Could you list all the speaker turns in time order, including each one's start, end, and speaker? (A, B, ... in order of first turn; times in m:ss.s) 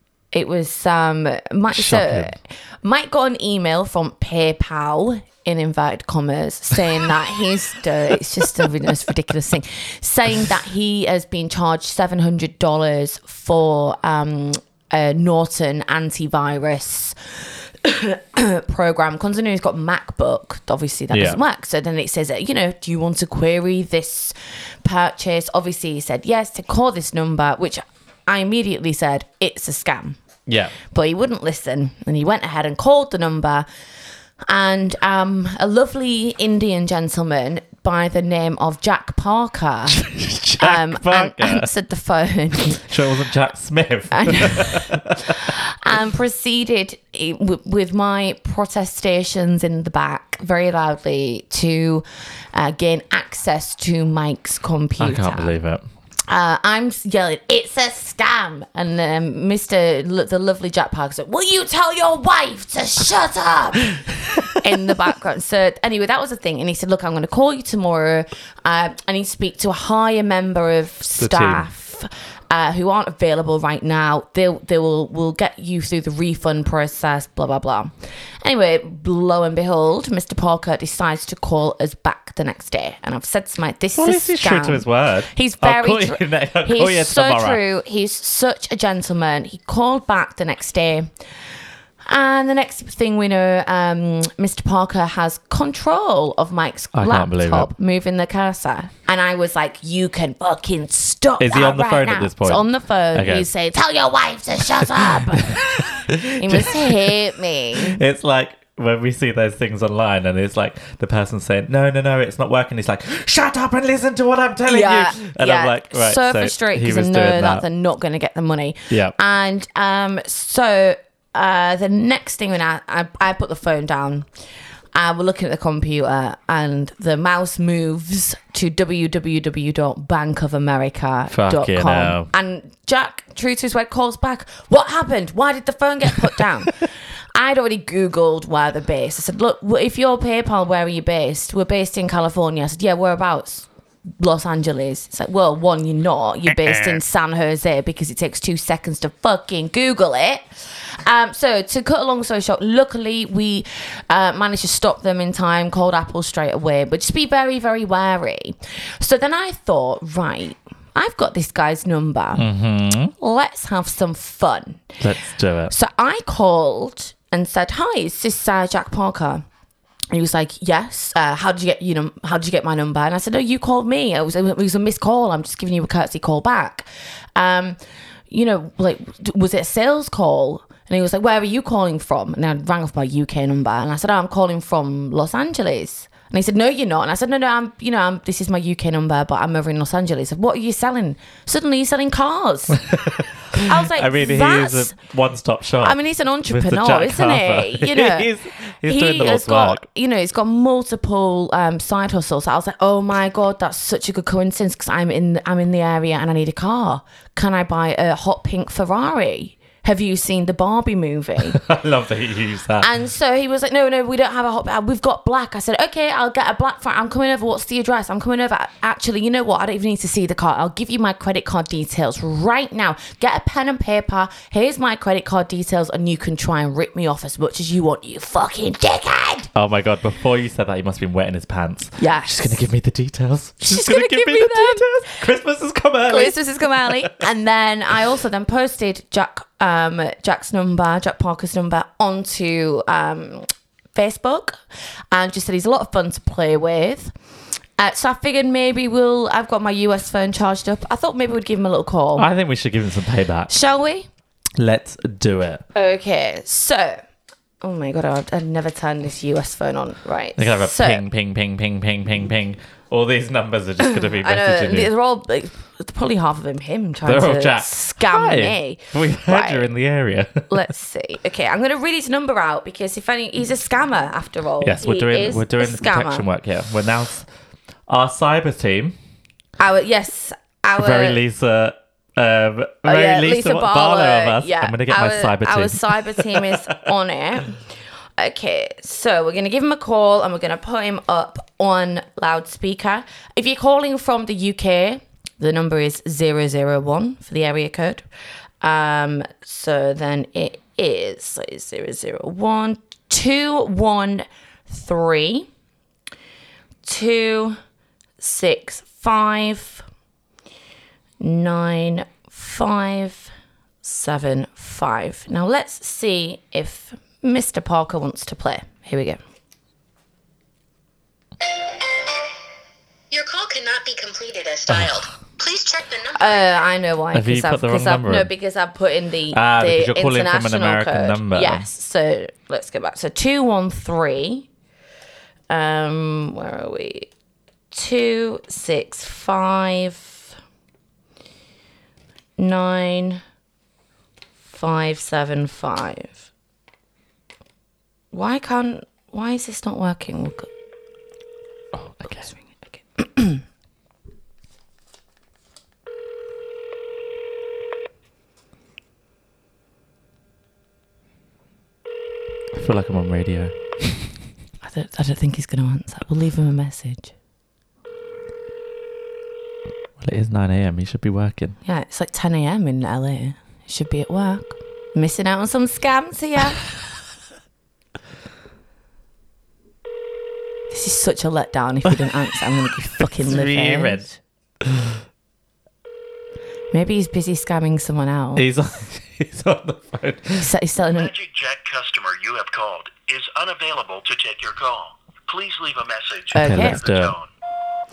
0:00.3-0:17.2 A
0:01.7-0:02.4 B
0:17.8-0:30.2 A
0:21.1-0:21.4 B
0:30.5-0:30.7 B
0:30.8-0:33.6 A
0:34.4-0:42.8 A
0:39.9-0:41.7 B
0:42.7-0:45.5 B
0:44.1-0:55.6 A
0:55.0-0:55.8 B
0:56.3-1:31.1 A
1:11.2-1:11.6 B
1:24.0-1:27.6 B
1:32.0-1:48.0 A
1:36.9-1:37.7 B
1:41.4-1:43.5 B
1:44.9-1:47.2 B
1:47.7-1:57.6 B
1:54.7-2:04.3 A
1:58.9-1:59.1 B
2:04.9-2:23.7 A
2:11.3-2:12.3 B
2:24.2-2:42.5 A
2:26.5-2:27.0 B
2:42.4-2:43.1 B
2:43.2-2:45.0 A
2:45.0-2:45.7 B
2:45.7-2:49.4 A
2:50.1-2:57.8 A
2:58.3-3:12.8 A
3:12.7-3:19.8 B
3:13.5-3:14.9 A
3:15.8-3:18.3 A
3:18.8-3:31.6 A
3:31.5-3:32.9 B
3:32.8-3:49.5 A
3:49.5-3:57.2 B
3:52.0-3:52.6 A
3:53.6-3:55.1 A
3:56.1-4:04.6 A
4:05.1-4:07.1 A
4:07.8-4:12.3 A
4:12.2-4:13.5 B
4:13.5-4:14.1 A
4:14.6-4:15.6 B
4:15.7-4:17.0 A
4:17.6-4:21.0 A
4:20.4-4:24.9 B
4:23.8-4:29.7 A
4:27.0-4:30.6 B
4:30.5-4:36.2 A
4:34.6-4:37.3 B
4:37.9-4:39.0 B
4:39.6-4:41.2 A
4:40.8-4:46.6 B
4:42.8-4:58.0 A
4:58.6-5:05.5 A
5:06.8-5:07.6 A
5:08.2-5:09.8 A
5:11.2-5:13.3 A
5:13.8-5:19.2 A
5:23.1-5:26.2 C
5:24.7-5:25.0 B
5:26.1-5:34.5 A
5:27.1-5:28.3 B
5:29.3-5:31.6 B
5:35.5-5:37.1 A
5:37.7-5:40.2 A
5:42.4-5:43.2 A
5:44.5-5:46.2 A
5:48.1-5:50.5 A
5:51.7-5:52.3 B
5:52.1-5:53.4 A
6:02.5-6:04.1 B
6:04.6-6:07.1 A
6:10.0-6:11.6 B
6:11.6-6:16.6 A
6:20.7-6:24.0 A
6:23.0-6:25.0 B
6:26.7-6:28.5 A
6:28.4-6:30.5 B
6:30.4-6:31.1 A
6:30.9-6:37.3 D
6:36.3-6:36.8 A
6:36.3-6:37.1 B